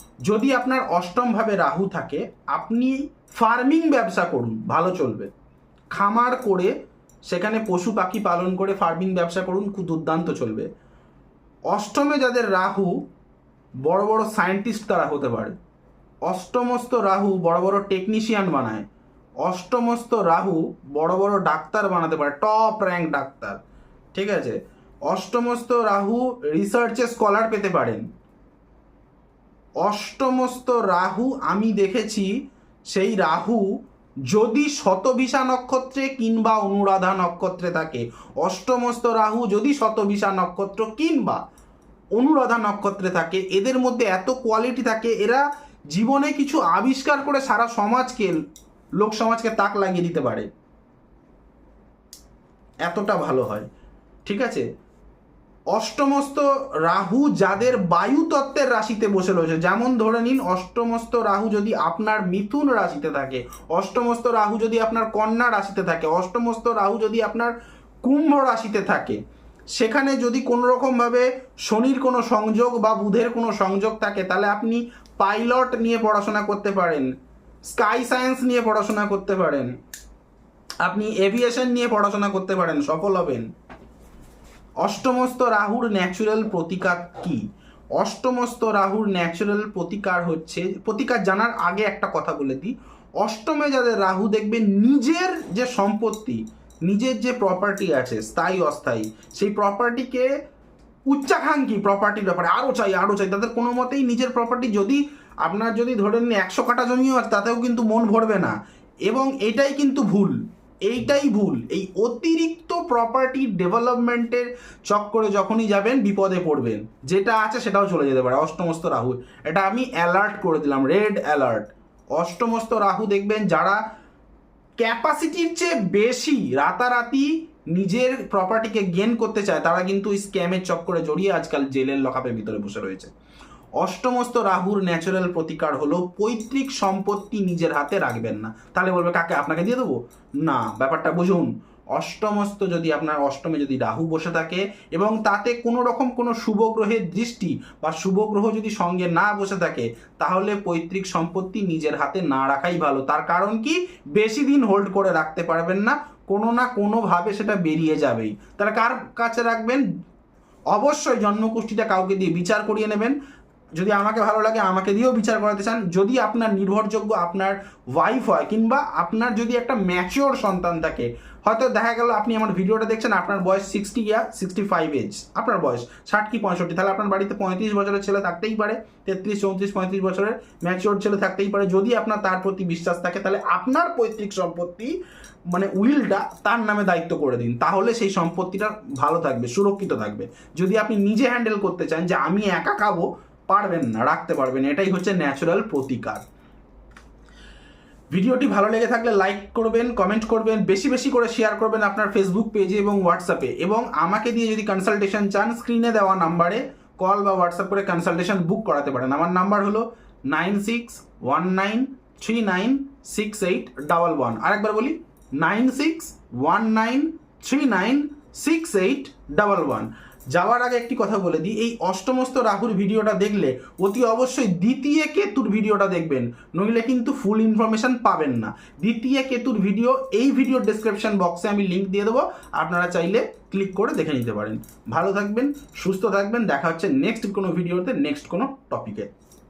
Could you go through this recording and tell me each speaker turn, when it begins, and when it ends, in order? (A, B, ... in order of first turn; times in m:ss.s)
0:00.3-0:05.3 A
0:05.9-0:06.7 A
0:07.3-0:10.7 A
0:11.7-0:13.0 A
0:13.8-0:15.6 A
0:16.3-0:18.8 A
0:19.4-0:23.6 A
0:24.1-0:24.6 A
0:25.1-0:28.0 A
0:29.8-0:32.3 A
0:32.9-0:33.7 A
0:34.3-0:41.4 A
0:42.2-0:48.3 A
0:49.0-0:50.5 A
0:52.8-0:53.7 A
0:54.2-0:54.6 A
0:55.7-1:07.5 A
1:08.0-1:09.2 A
1:09.7-1:17.1 A
1:17.7-1:19.7 A
1:20.8-1:23.5 A
1:24.8-1:27.4 A
1:28.0-1:40.3 A
1:41.1-1:48.5 A
1:49.1-2:03.8 A
2:04.8-2:13.1 A
2:13.8-2:39.8 A
2:40.7-2:43.1 A
2:43.8-3:04.9 A
3:05.5-3:16.2 A
3:18.1-3:59.1 A